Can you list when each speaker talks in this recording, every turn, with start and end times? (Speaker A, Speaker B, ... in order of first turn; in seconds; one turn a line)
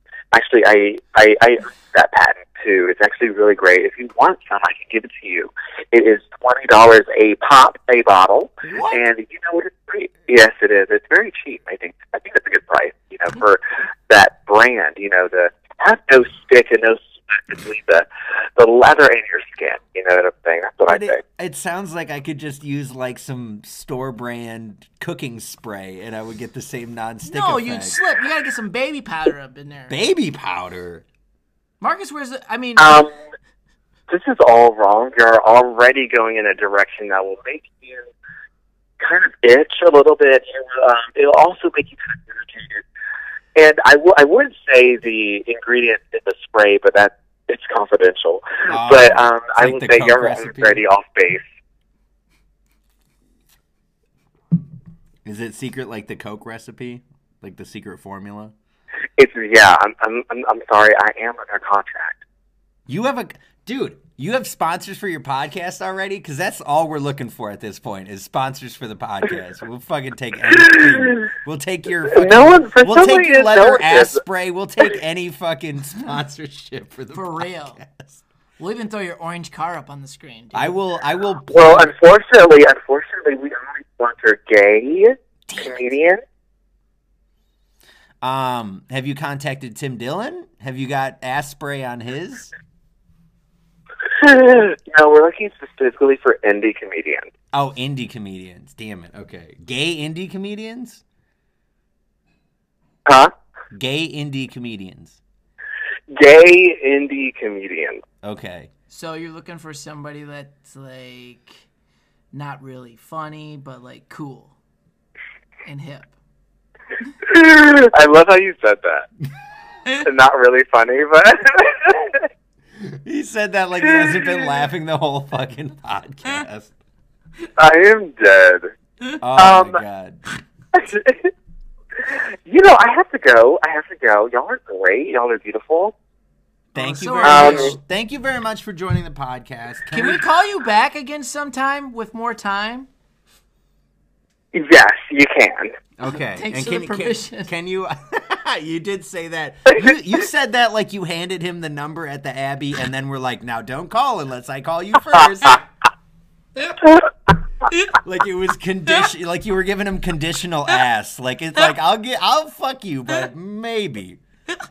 Speaker A: 0.3-21.2
Speaker B: 8.7-9.0
Speaker B: 20.9-28.0
Speaker C: 27.2-30.0
Speaker B: 29.9-31.1
Speaker C: 31.8-33.0
Speaker A: 32.8-33.1
Speaker A: 34.1-38.1
Speaker A: 39.0-42.8
Speaker A: 43.5-51.4
Speaker B: 48.7-50.8
Speaker B: 55.2-58.5
Speaker A: 59.2-62.2
Speaker B: 62.9-78.2
Speaker A: 70.7-71.3
Speaker A: 72.1-74.2
Speaker C: 77.1-77.8
Speaker C: 78.6-80.8
Speaker B: 80.5-81.9
Speaker A: 81.5-86.2
Speaker B: 88.2-92.5
Speaker A: 94.2-97.3
Speaker B: 97.5-101.0
Speaker A: 103.1-103.3
Speaker B: 103.7-105.2
Speaker A: 106.1-108.0
Speaker B: 108.2-108.7
Speaker C: 108.9-111.6
Speaker C: 112.3-114.5
Speaker C: 115.7-116.1
Speaker A: 117.2-119.1
Speaker A: 119.9-122.3
Speaker B: 122.8-126.7
Speaker A: 124.0-124.4
Speaker A: 127.6-128.7
Speaker B: 129.2-130.2
Speaker A: 129.3-129.8
Speaker A: 130.7-131.3
Speaker A: 132.1-135.9
Speaker B: 136.7-140.2
Speaker C: 136.8-137.8
Speaker A: 137.2-137.8
Speaker C: 139.9-142.9
Speaker A: 144.5-145.8
Speaker B: 146.0-155.6
Speaker C: 146.1-147.5
Speaker B: 157.9-164.2